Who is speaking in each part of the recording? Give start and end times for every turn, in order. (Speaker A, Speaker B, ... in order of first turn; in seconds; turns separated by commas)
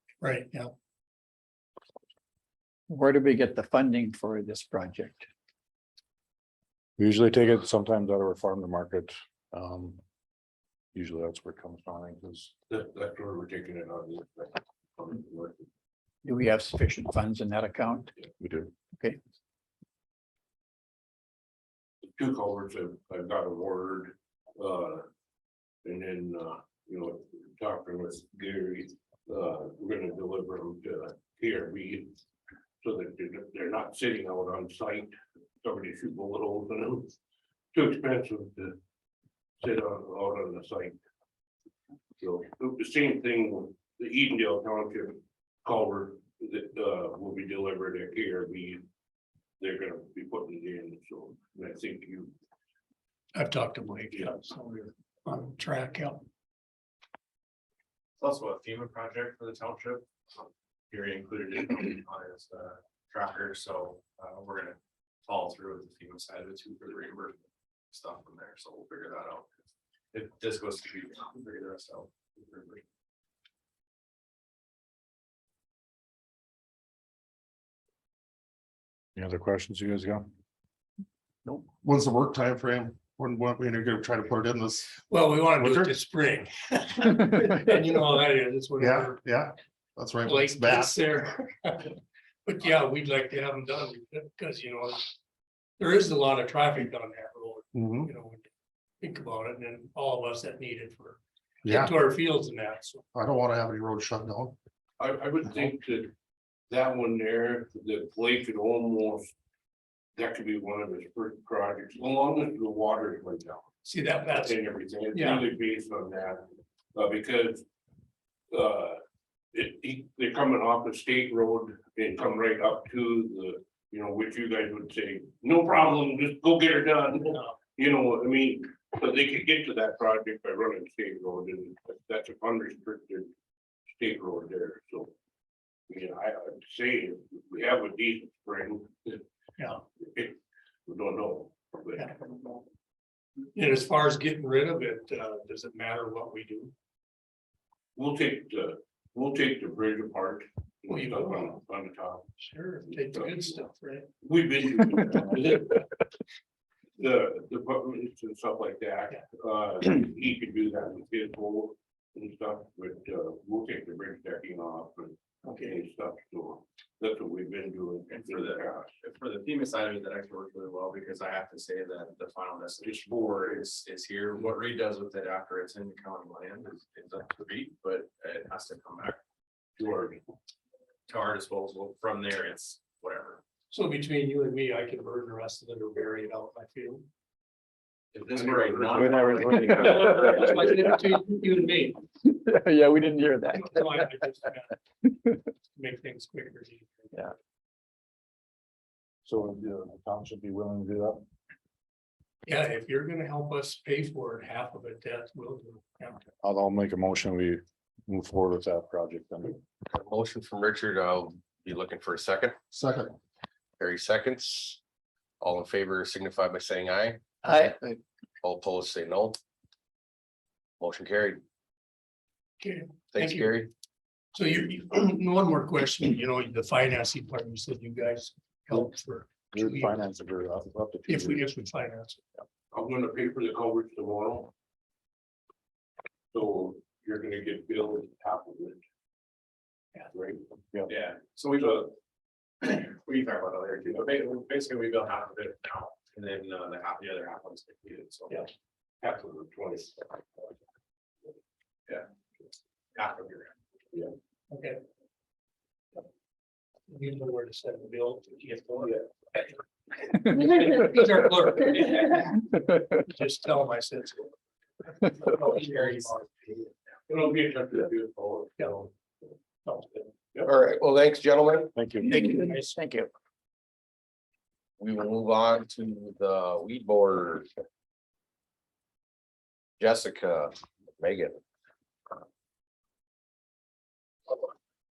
Speaker A: 0.2-0.7, Speaker B: 2.9-5.3, Speaker C: 7.0-10.0, Speaker C: 10.9-12.5, Speaker D: 12.7-15.7, Speaker B: 16.2-18.1, Speaker C: 18.4-18.7, Speaker B: 18.9-19.2, Speaker D: 22.1-25.1, Speaker D: 25.8-32.1, Speaker D: 32.8-37.1, Speaker D: 37.7-38.8, Speaker D: 39.6-41.0, Speaker D: 42.2-48.8, Speaker D: 49.6-52.3, Speaker A: 53.3-56.2, Speaker D: 54.1-54.4, Speaker E: 58.2-67.4, Speaker E: 67.9-69.5, Speaker E: 70.1-72.8, Speaker C: 79.2-80.3, Speaker F: 81.5-85.0, Speaker A: 85.0-89.2, Speaker F: 85.5-86.0, Speaker F: 88.8-91.1, Speaker A: 90.2-95.1, Speaker A: 95.8-98.5, Speaker F: 97.7-98.1, Speaker A: 99.0-103.0, Speaker F: 101.6-102.0, Speaker F: 103.1-104.6, Speaker D: 105.0-106.1, Speaker D: 106.7-109.3, Speaker D: 110.2-113.7, Speaker A: 113.8-115.5, Speaker D: 114.2-117.6, Speaker D: 118.5-119.0, Speaker D: 119.5-133.3, Speaker D: 133.9-135.1, Speaker D: 135.9-139.2, Speaker A: 139.6-139.8, Speaker D: 140.0-142.1, Speaker A: 143.5-146.7, Speaker D: 147.9-152.3, Speaker A: 150.9-151.6, Speaker A: 152.4-154.1, Speaker D: 152.9-153.6, Speaker D: 154.2-155.9, Speaker D: 157.0-168.9, Speaker A: 165.4-165.8, Speaker E: 168.2-179.2, Speaker D: 179.8-180.2, Speaker E: 181.1-183.4, Speaker A: 183.7-187.1, Speaker E: 188.1-190.4, Speaker D: 188.3-189.7, Speaker B: 189.4-191.5, Speaker A: 189.8-192.0, Speaker B: 192.2-194.2, Speaker A: 193.5-194.8, Speaker B: 195.0-195.3, Speaker A: 195.7-197.1, Speaker C: 199.2-201.2, Speaker A: 202.4-206.2, Speaker C: 206.4-209.6, Speaker G: 209.9-212.6, Speaker F: 212.7-213.2, Speaker G: 213.8-214.8, Speaker G: 215.4-217.2, Speaker B: 217.4-218.0, Speaker G: 218.4-219.4, Speaker G: 220.8-221.4, Speaker A: 222.6-223.5, Speaker G: 223.1-223.7, Speaker A: 224.3-230.0, Speaker C: 229.5-231.4, Speaker A: 231.1-232.2, Speaker D: 232.7-234.5, Speaker D: 236.3-238.8, Speaker D: 240.1-240.4, Speaker E: 240.9-241.9, Speaker E: 242.6-248.5, Speaker D: 249.0-250.4, Speaker E: 252.9-253.5, Speaker A: 254.5-254.8, Speaker A: 256.9-259.5, Speaker A: 260.1-264.3, Speaker A: 265.0-266.2, Speaker D: 267.1-268.9, Speaker G: 270.4-271.7, Speaker C: 271.7-272.1, Speaker B: 272.1-273.1, Speaker A: 272.1-272.8, Speaker G: 274.8-277.5, Speaker G: 279.8-281.4